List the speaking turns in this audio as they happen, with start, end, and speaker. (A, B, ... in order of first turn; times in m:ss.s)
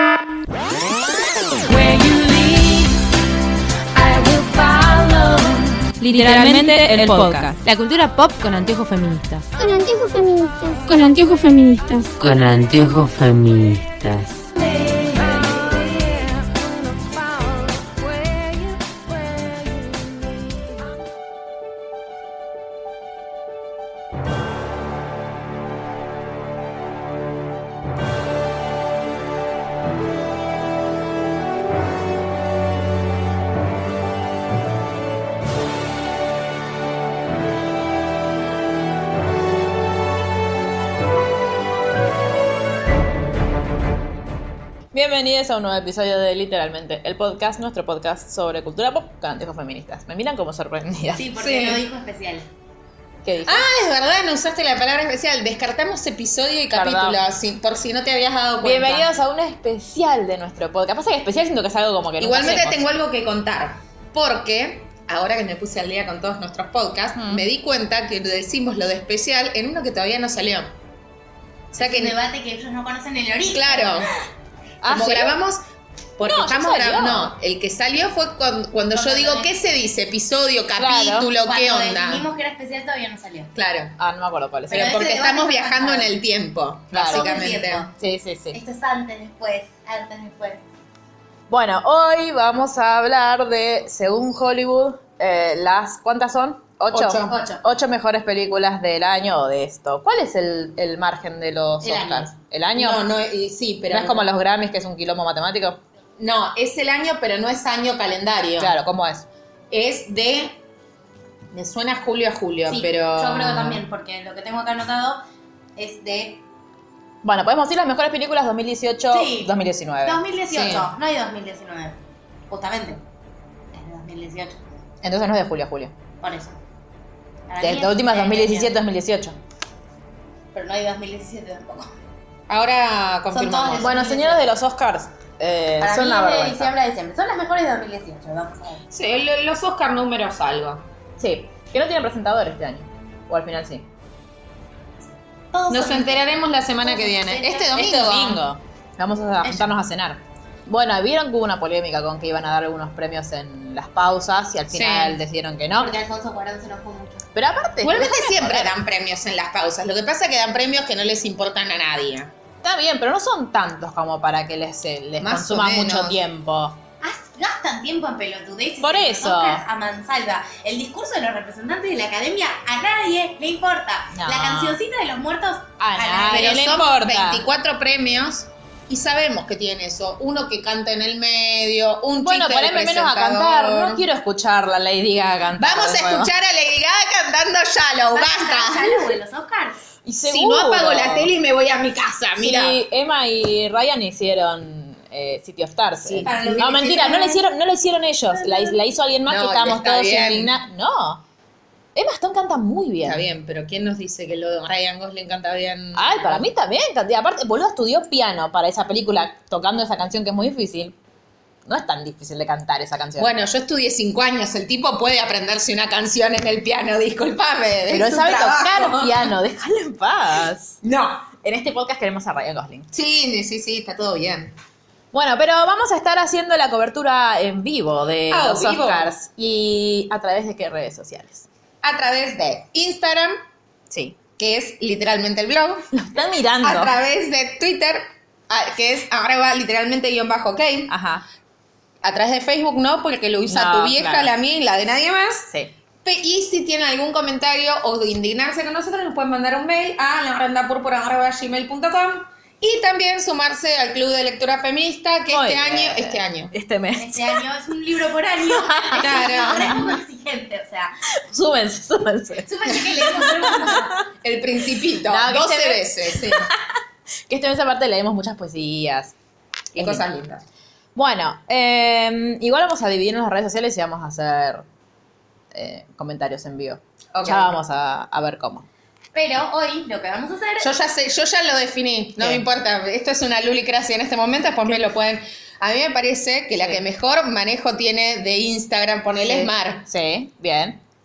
0:01.7-0:02.9 A
0:04.1-0:05.2 B
0:06.0-0:09.4 A
0:06.1-0:07.6 C
0:09.7-0:12.1 B
0:12.2-0:14.5 D
0:44.9-0:51.4 C
0:51.1-0:52.5 E
0:51.4-0:51.8 F
0:53.2-0:53.6 C
0:53.4-0:59.1 F
0:56.7-0:57.2 C
0:58.6-1:02.9 C
1:02.2-1:10.7 F
1:07.2-1:07.4 C
1:11.7-1:12.1 F
1:11.8-1:14.1 E
1:13.5-1:14.1 F
1:14.8-1:15.4 C
1:14.8-1:15.6 F
1:16.2-1:22.2 F
1:16.2-1:17.3 C
1:18.9-1:19.5 E
1:20.8-1:21.3 C
1:21.4-1:23.5 E
1:23.5-1:24.0 F
1:24.0-1:25.1 C
1:24.7-1:26.1 E
1:24.7-1:27.9 F
1:26.9-1:27.3 C
1:26.9-1:27.9 E
1:28.0-1:28.6 C
1:28.5-1:30.6 E
1:31.5-1:43.0 C
1:36.9-1:37.4 F
1:37.3-1:37.6 E
1:41.8-1:42.3 E
1:42.7-1:44.3 F
1:43.9-1:45.8 C
1:46.2-1:48.7 F
1:48.6-1:49.3 C
1:49.7-1:50.6 F
1:51.5-1:53.8 F
1:52.6-1:55.2 E
1:55.8-1:56.4 E
1:57.2-2:00.2 C
1:59.1-2:02.0 E
2:00.5-2:00.8 F
2:02.5-2:03.0 E
2:03.7-2:04.6 E
2:05.0-2:05.9 C
2:06.2-2:06.6 E
2:07.5-2:08.7 E
2:07.6-2:09.4 C
2:10.5-2:11.9 E
2:12.5-2:13.9 F
2:13.3-2:14.6 E
2:13.7-2:16.7 C
2:15.8-2:18.8 E
2:18.9-2:20.8 F
2:21.2-2:23.9 C
2:25.5-2:26.2 E
2:25.7-2:28.4 F
2:26.8-2:27.7 E
2:27.7-2:35.9 C
2:34.7-2:35.2 F
2:35.8-2:37.3 E
2:37.3-2:38.7 C
2:37.8-2:42.3 F
2:42.6-2:46.8 C
2:45.2-2:46.2 F
2:47.0-2:56.7 E
2:48.8-2:49.6 C
2:54.1-2:54.8 C
2:55.8-2:57.4 C
2:56.2-3:04.0 F
3:02.2-3:06.3 C
3:05.6-3:09.1 F
3:08.1-3:09.8 E
3:10.0-3:11.3 C
3:10.2-3:12.8 F
3:12.4-3:21.2 C
3:16.0-3:16.8 F
3:16.2-3:17.4 E
3:18.3-3:18.8 E
3:19.2-3:20.5 F
3:21.9-3:23.2 C
3:23.0-3:26.5 F
3:25.9-3:31.0 C
3:31.6-3:33.3 C
3:33.2-3:39.3 F
3:37.9-3:40.8 C
3:40.8-3:41.3 F
3:41.4-3:42.9 C
3:42.9-3:44.5 F
3:45.1-3:51.5 C
3:48.3-3:49.1 F
3:51.8-3:53.4 F
3:53.9-3:54.2 C
3:54.4-3:55.9 F
3:55.9-3:56.9 C
3:56.6-4:00.9 F
4:00.9-4:01.2 C
4:02.0-4:05.5 F
4:03.5-4:04.3 C
4:06.0-4:16.5 F
4:15.3-4:17.4 C
4:17.0-4:21.0 E
4:18.4-4:19.8 C
4:19.0-4:19.8 F
4:21.2-4:23.8 C
4:22.4-4:24.0 E
4:24.2-4:26.5 F
4:25.1-4:26.6 C
4:27.3-4:29.1 C
4:29.7-4:30.4 F
4:29.8-4:30.0 C
4:30.9-4:34.6 C
4:35.5-4:38.6 C
4:37.1-4:37.5 F
4:39.1-4:40.7 E
4:40.6-4:49.8 F
4:42.2-4:42.4 C
4:49.2-4:50.8 C